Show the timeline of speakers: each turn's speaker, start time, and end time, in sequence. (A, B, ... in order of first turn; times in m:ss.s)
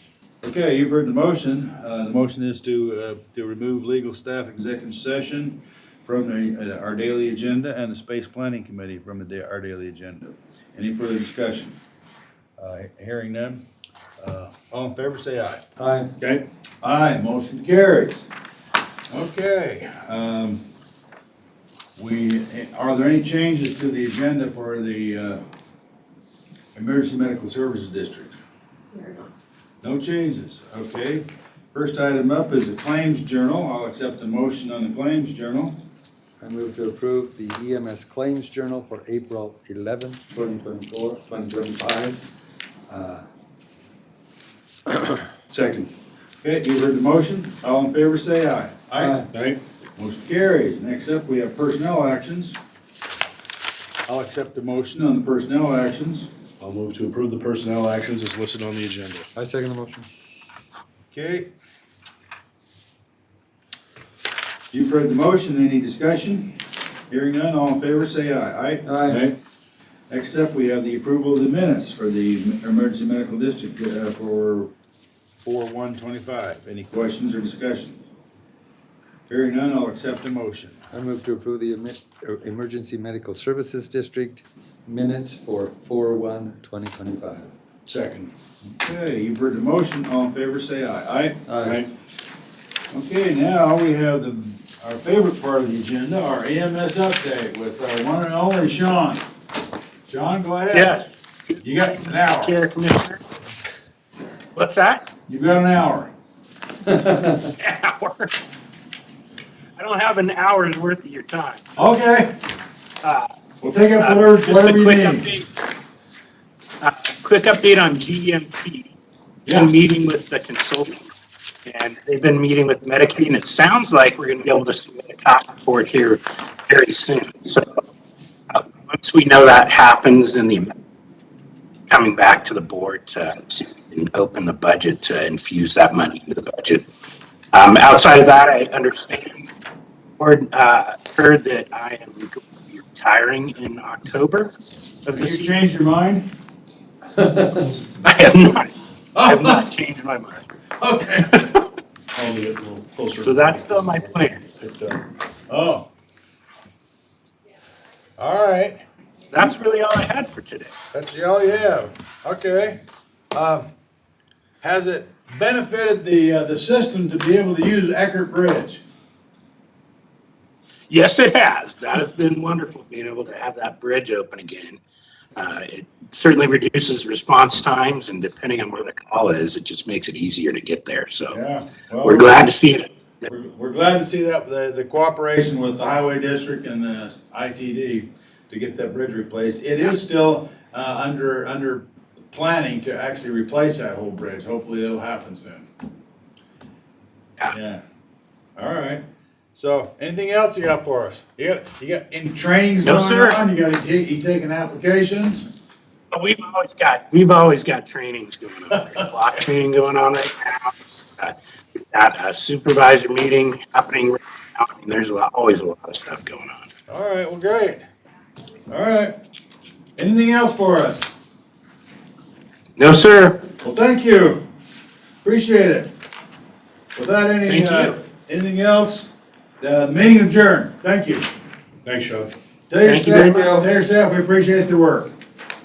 0:00.4-0:11.8 A
0:12.6-0:13.6 A
0:14.2-0:15.6 A
0:15.8-0:16.1 B
0:16.2-0:16.4 C
0:16.8-0:18.3 A
0:19.1-0:20.6 A
0:22.0-0:25.4 A
0:26.8-0:28.4 A
0:29.8-0:35.8 A
0:36.4-0:42.2 B
0:42.9-0:43.2 B
0:45.5-0:45.9 C
0:46.4-0:49.2 A
0:49.0-0:49.3 B
0:49.3-0:49.6 C
0:50.0-0:52.6 A
0:54.1-0:56.3 A
0:56.6-0:59.3 C
0:59.4-1:00.1 B
1:01.1-1:01.5 A
1:04.7-1:06.6 A
1:07.1-1:08.9 A
1:08.8-1:09.3 B
1:09.1-1:09.3 C
1:10.1-1:14.7 A
1:15.4-1:18.0 A
1:19.3-1:20.8 A
1:20.9-1:27.5 B
1:27.9-1:28.3 C
1:28.8-1:31.4 A
1:31.5-1:31.8 B
1:31.6-1:31.9 C
1:32.9-1:39.2 A
1:40.1-1:41.0 A
1:40.7-1:43.2 D
1:41.6-1:42.6 A
1:44.6-1:45.0 D
1:45.3-1:46.1 A
1:46.9-1:47.5 B
1:47.6-1:48.3 D
1:49.8-1:51.7 D
1:51.8-1:52.3 A
1:53.0-1:53.3 D
1:53.6-1:55.3 A
1:54.0-1:55.5 D
1:56.8-1:58.9 D
1:59.5-1:59.7 A
1:59.5-2:01.1 D
2:01.7-2:07.8 D
2:08.5-2:10.7 D
2:11.9-2:16.8 D
2:17.5-2:19.5 D
2:20.2-2:24.5 D
2:25.1-2:26.3 A
2:25.1-2:25.5 D
2:27.2-2:27.7 B
2:28.0-2:30.5 D
2:29.2-2:29.6 A
2:30.8-2:31.4 A
2:31.3-2:31.6 D
2:32.1-2:34.0 C
2:33.2-2:34.4 D
2:34.6-2:35.0 C
2:35.5-2:35.9 A
2:38.2-2:38.8 A
2:39.3-2:40.7 D
2:40.9-2:42.8 A
2:43.3-2:43.7 A
2:44.6-2:48.8 A
2:50.9-2:54.8 D
2:55.4-3:01.4 D
3:01.3-3:02.4 A
3:02.0-3:03.3 D
3:03.3-3:15.7 A
3:17.5-3:17.8 A
3:18.6-3:19.0 A
3:19.5-3:25.5 A
3:22.8-3:23.4 D
3:26.1-3:31.4 D
3:31.9-3:36.7 D
3:36.9-3:37.8 A
3:38.7-3:39.2 A
3:40.0-3:41.1 A
3:42.8-3:43.4 D
3:43.6-3:44.4 A
3:45.2-3:45.9 A
3:47.0-3:49.1 A
3:47.4-3:48.0 D
3:49.6-3:51.3 A
3:51.8-3:52.3 C
3:52.7-3:55.1 A
3:52.8-3:53.5 D
3:53.2-3:53.7 B